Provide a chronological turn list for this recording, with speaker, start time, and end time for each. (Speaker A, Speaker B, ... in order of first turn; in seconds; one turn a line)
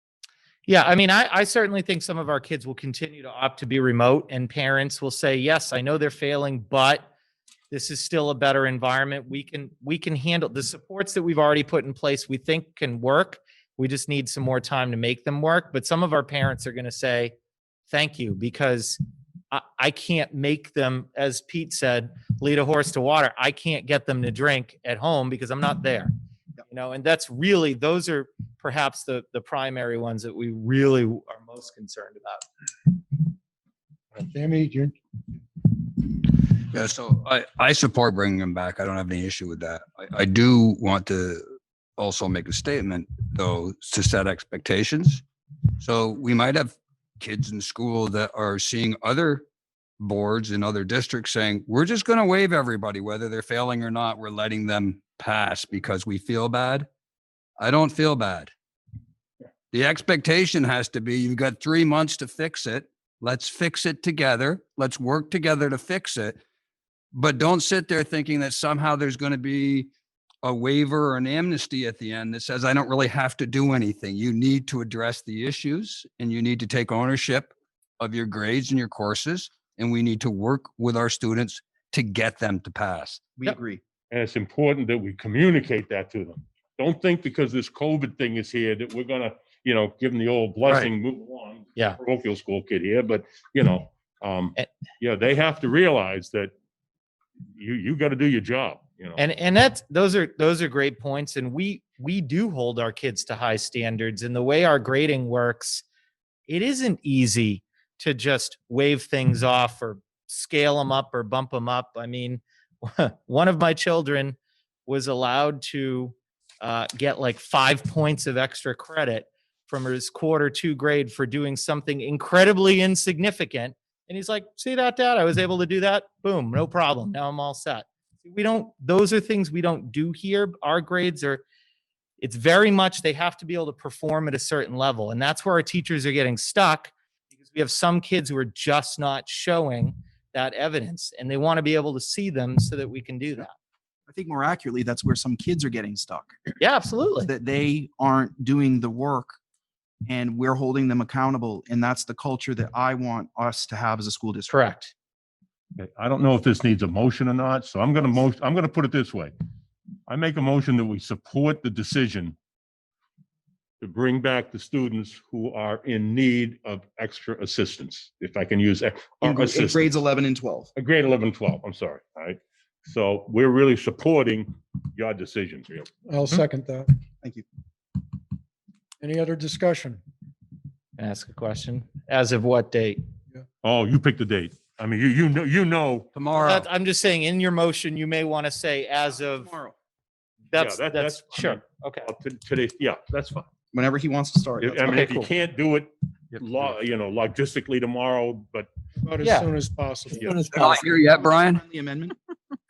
Speaker A: 0.7-7.1
Speaker A: 7.7-17.3
Speaker A: 17.9-19.0
Speaker A: 19.5-26.1
Speaker A: 26.6-32.5
Speaker B: 34.1-35.0
Speaker C: 35.9-45.2
Speaker C: 45.8-49.5
Speaker C: 50.0-56.9
Speaker C: 57.6-58.5
Speaker C: 59.7-66.4
Speaker C: 67.1-69.9
Speaker C: 70.4-83.2
Speaker D: 83.4-83.8
Speaker E: 84.1-96.5
Speaker E: 97.6-99.2
Speaker A: 99.2-105.8
Speaker A: 106.5-131.4
Speaker A: 132.2-143.5
Speaker D: 144.1-146.4
Speaker A: 146.6-147.3
Speaker D: 147.3-149.4
Speaker D: 150.1-154.6
Speaker A: 154.5-154.9
Speaker E: 155.8-159.3
Speaker E: 160.1-162.4
Speaker E: 163.8-169.9
Speaker D: 169.2-170.7
Speaker E: 170.8-175.9
Speaker B: 176.1-176.9
Speaker B: 179.0-180.0
Speaker A: 181.0-183.0
Speaker E: 183.6-186.1
Speaker C: 186.1-186.7
Speaker A: 186.4-189.5
Speaker D: 189.3-189.8
Speaker A: 190.5-192.1
Speaker E: 190.6-193.5
Speaker D: 193.7-195.1
Speaker E: 194.6-198.7
Speaker A: 194.9-195.3
Speaker B: 199.0-200.3
Speaker A: 199.2-199.5
Speaker C: 200.1-201.6
Speaker D: 200.6-202.2